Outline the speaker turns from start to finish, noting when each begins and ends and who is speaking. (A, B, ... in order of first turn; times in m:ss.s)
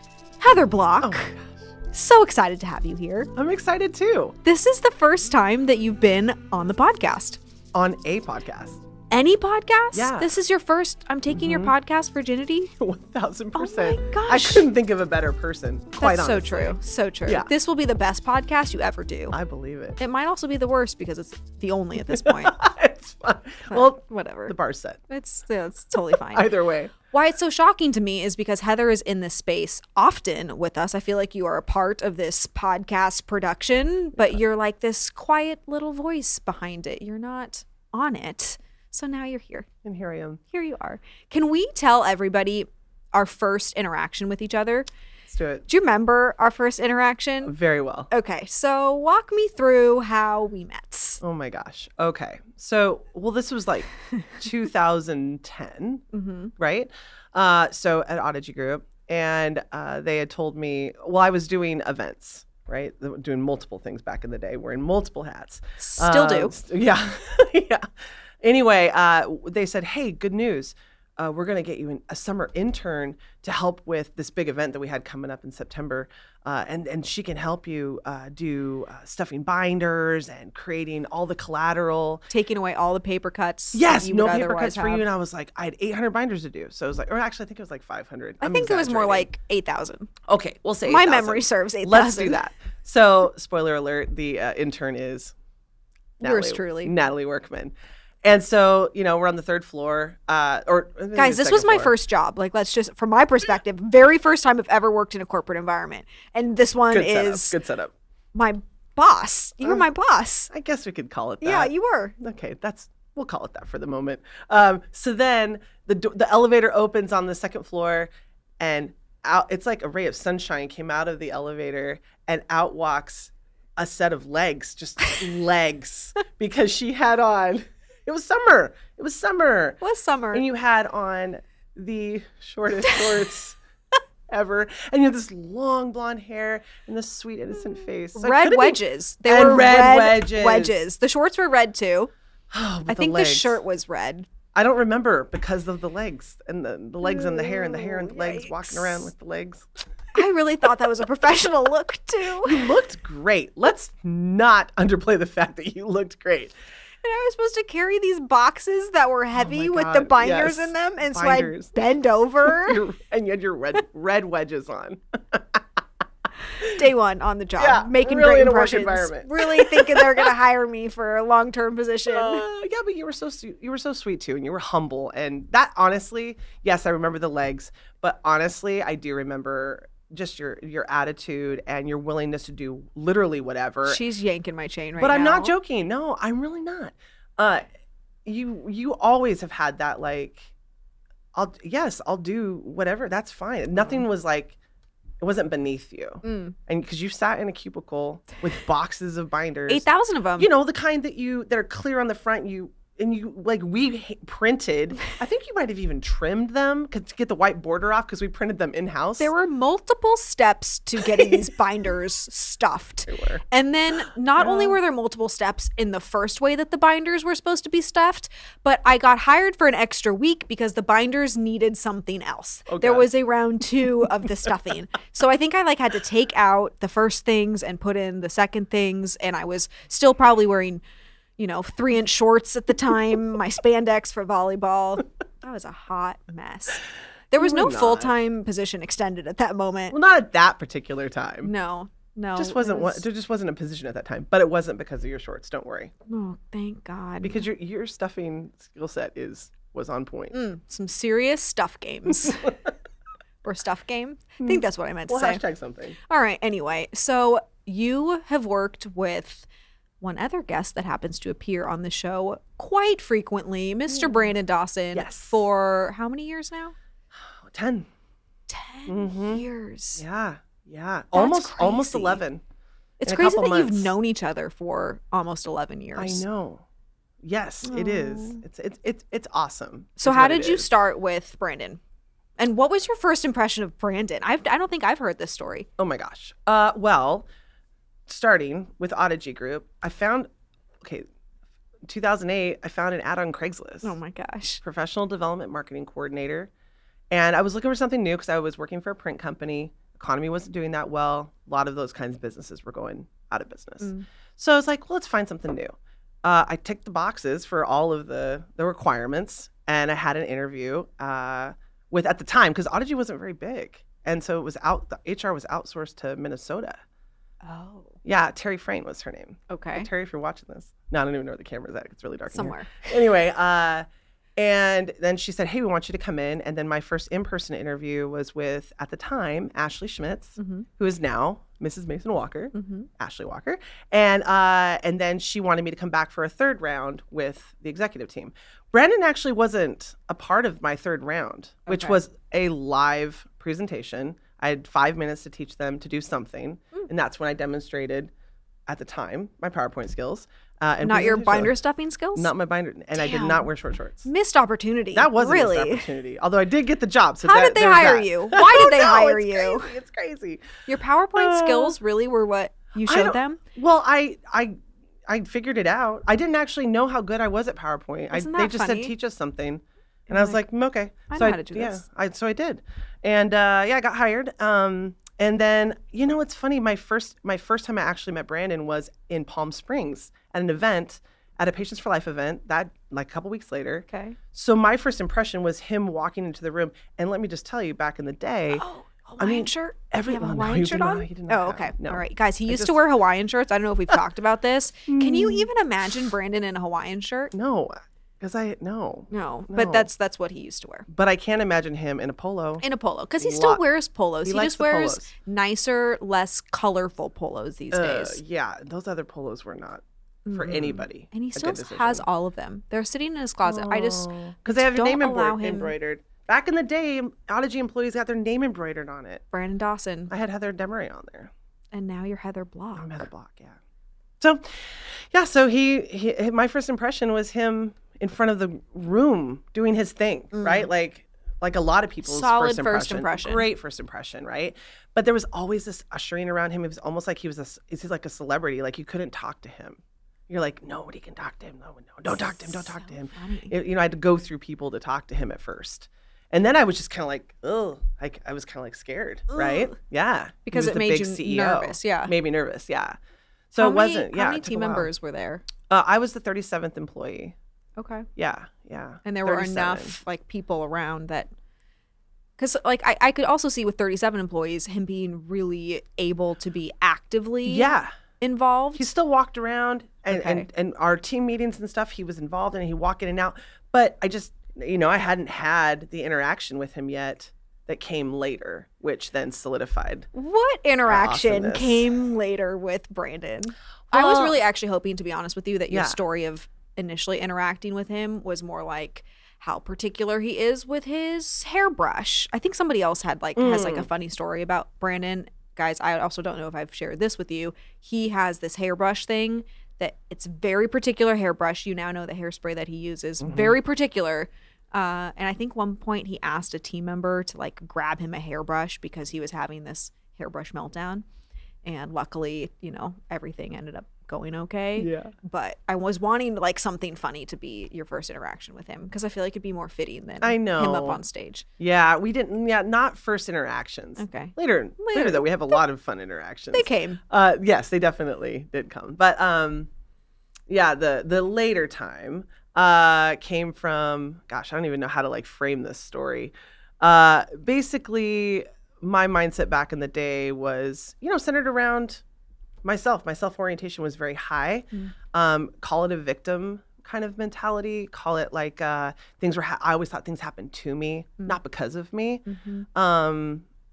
0:00.4-0:01.3 A
0:01.0-0:01.6 B
0:01.9-0:03.3 A
0:03.4-0:04.4 B
0:04.4-0:07.4 A
0:07.7-0:08.8 B
0:09.1-0:12.7 A
0:09.9-0:10.3 B
0:11.3-0:11.7 B
0:12.8-0:17.5 B
0:13.6-0:14.7 A
0:16.0-0:19.4 A
0:19.3-0:20.0 B
0:20.0-0:22.5 A
0:22.0-0:25.0 B
0:23.7-0:24.5 A
0:25.1-0:26.5 A
0:26.1-0:26.9 B
0:27.1-0:39.7 A
0:39.8-0:40.4 B
0:40.5-0:44.9 A
0:45.3-0:45.6 B
0:45.7-0:47.5 A
0:47.4-0:48.1 B
0:48.1-0:51.2 A
0:51.2-0:56.0 B
0:56.1-0:56.5 A
0:56.6-1:07.8 B
1:05.8-1:06.5 A
1:08.4-1:22.2 B
1:22.3-1:25.0 A
1:23.7-1:29.3 B
1:28.4-1:30.1 A
1:30.3-1:35.3 B
1:30.8-1:32.4 A
1:36.2-1:36.9 A
1:36.2-1:41.9 B
1:41.1-1:47.6 A
1:46.9-1:47.9 B
1:48.3-1:50.5 A
1:50.5-2:09.8 B
1:51.4-1:52.1 A
2:09.8-2:10.4 A
2:10.3-2:13.6 B
2:14.3-2:20.8 B
2:18.1-2:22.1 A
2:22.5-2:23.6 B
2:22.9-2:24.3 A
2:24.5-2:29.7 B
2:27.0-2:29.1 A
2:30.1-2:32.6 A
2:32.4-2:36.5 B
2:37.0-2:42.8 A
2:39.3-2:41.7 B
2:42.4-2:45.6 B
2:46.6-2:52.4 A
2:47.6-2:50.3 B
2:52.1-3:04.0 B
3:03.8-3:05.5 A
3:05.0-3:07.6 B
3:08.2-3:10.5 B
3:11.3-3:14.6 B
3:13.7-3:14.0 A
3:15.2-3:19.8 B
3:16.2-3:16.5 A
3:19.7-3:20.5 A
3:20.4-3:29.3 B
3:29.2-3:50.8 A
3:33.1-3:33.4 B
3:34.4-3:34.8 B
3:42.7-3:43.1 B
3:51.4-3:59.9 A
3:57.4-3:58.1 B
3:59.9-4:01.5 B
4:01.4-4:03.0 A
4:02.4-4:05.9 B
4:06.1-4:07.4 A
4:07.2-4:10.4 B
4:10.3-4:12.5 A
4:12.2-4:12.5 B
4:13.4-4:15.4 A
4:14.4-4:16.0 B
4:16.1-4:19.5 A
4:20.0-4:26.7 A
4:23.9-4:24.3 B
4:24.9-4:25.4 B
4:27.3-4:27.9 B
4:28.5-4:30.0 A
4:28.9-4:29.4 B
4:30.0-4:32.4 B
4:31.1-4:32.2 A
4:33.0-4:36.2 A
4:33.0-4:33.9 B
4:36.0-4:36.6 B
4:37.2-4:40.7 B
4:37.6-4:38.4 A
4:40.0-4:41.8 A
4:42.4-4:45.7 A
4:45.8-4:47.3 B
4:48.1-4:50.3 B
4:51.8-4:54.0 B
4:53.8-4:54.6 A
4:54.6-4:56.5 B
4:57.1-5:16.8 B
5:03.8-5:04.0 A
5:17.4-5:18.0 A
5:18.0-5:23.8 B
5:19.5-5:19.9 A
5:22.3-5:22.9 A
5:24.4-5:48.1 B
5:30.4-5:30.6 A
5:32.5-5:32.9 A
5:41.7-5:42.0 A
5:48.7-5:51.5 B
5:50.8-5:52.3 A
5:52.1-5:54.1 B
5:52.9-5:53.5 A
5:54.0-5:55.9 A
5:54.9-6:00.4 B
5:57.2-5:59.7 A
6:00.6-6:03.4 A
6:01.1-6:01.7 B
6:02.8-6:04.6 B
6:05.1-6:28.6 B
6:08.1-6:08.9 A
6:10.1-6:10.4 A
6:11.1-6:11.8 A
6:23.9-6:24.2 A
6:28.5-6:37.3 A
6:29.2-6:32.8 B
6:34.9-6:35.5 B
6:37.3-6:39.9 B
6:39.1-6:40.9 A
6:40.9-6:42.6 B
6:42.6-6:48.2 A
6:43.2-6:43.6 B
6:44.2-6:45.1 B
6:47.7-6:49.8 B
6:50.2-6:55.7 A
6:50.3-6:52.0 B
6:53.4-6:59.2 B
6:59.3-7:00.1 A
7:00.1-7:01.3 B
7:01.7-7:03.0 A
7:02.8-7:03.6 B
7:04.2-7:33.0 B
7:10.3-7:10.7 A
7:12.0-7:13.5 A
7:22.1-7:23.5 A
7:29.3-7:29.8 A
7:30.4-7:32.1 A
7:33.5-7:34.9 B
7:33.6-7:35.4 A
7:35.7-7:37.4 B
7:37.8-7:38.1 A
7:38.2-7:40.0 B
7:39.0-7:41.3 A
7:42.4-7:47.7 A
7:47.4-7:47.9 B
7:48.2-7:48.9 A
7:48.8-8:00.1 B
7:50.1-7:50.4 A
8:00.1-8:31.0 A
8:00.8-8:01.9 B
8:03.9-8:04.4 B
8:05.7-8:06.0 B
8:13.4-8:13.9 B
8:23.2-8:23.6 B
8:31.6-8:41.4 A
8:34.8-8:35.1 B
8:40.2-8:41.0 B
8:41.6-8:49.7 B
8:44.0-8:45.6 A
8:46.5-8:47.0 A
8:50.5-9:02.0 B
9:02.6-9:13.4 B
9:12.2-9:12.6 A